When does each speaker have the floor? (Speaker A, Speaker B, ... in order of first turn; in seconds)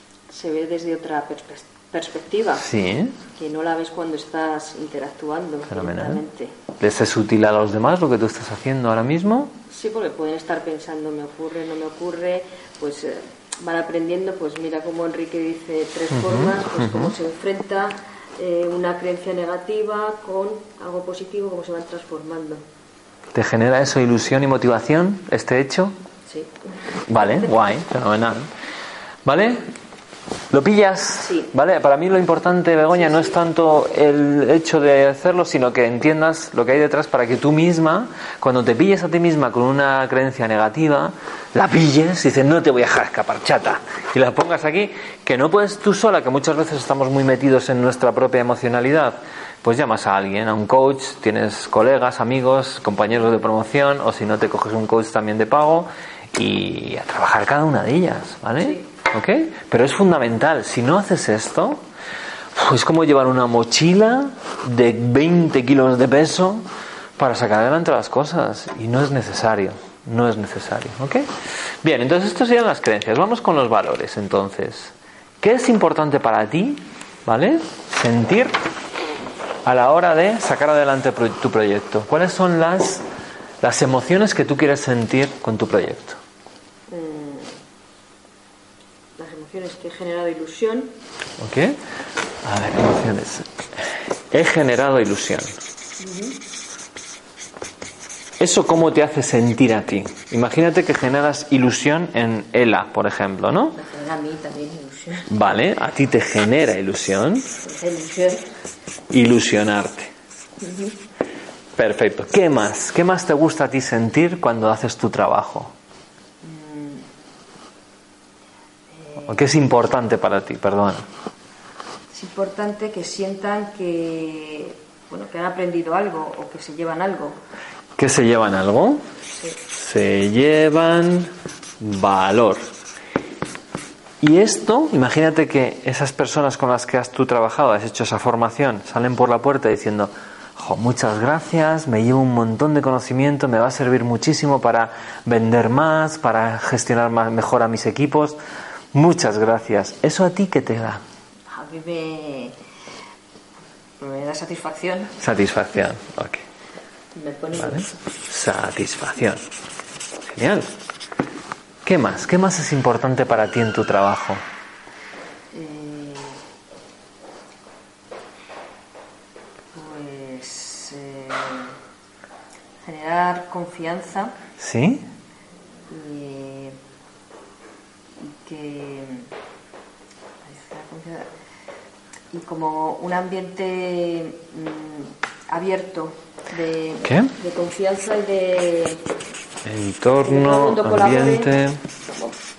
Speaker A: 0.3-2.6, 3.4-6.6, 9.7-22.6, 26.3-26.5, 27.2-27.5, 31.2-31.5, 32.9-33.4, 58.6-58.9, 86.9-87.6, 89.2-90.9, 96.0-96.4, 103.7-105.3, 107.6-108.5, 110.6-111.0, 116.4-117.1, 118.9-119.6, 122.1-127.4, 129.3-129.6, 151.5-152.6, 154.0-155.1, 157.2-157.9, 165.5-166.4, 169.7-171.8, 172.8-174.4, 175.9-176.8, 178.2-179.3, 180.4-181.3, 182.3-189.0, 190.2-191.5
Speaker B: 2.6-3.2, 5.7-6.2, 6.8-9.5, 16.1-17.1, 23.3-26.0, 27.1-28.5, 29.2-29.7, 30.5-61.8, 62.5-71.3, 71.8-78.6, 79.7-83.0, 83.6-86.2, 91.4-91.8, 92.4-95.5, 98.4-103.8, 105.3-107.5, 109.1-110.1, 111.8-115.7, 119.3-121.1, 128.0-129.1, 129.7-132.7, 134.2-148.4, 148.9-151.0, 155.2-156.4, 157.6-159.4, 160.2-160.7, 161.8-164.4, 174.6-175.1, 187.0-187.3, 189.7-191.8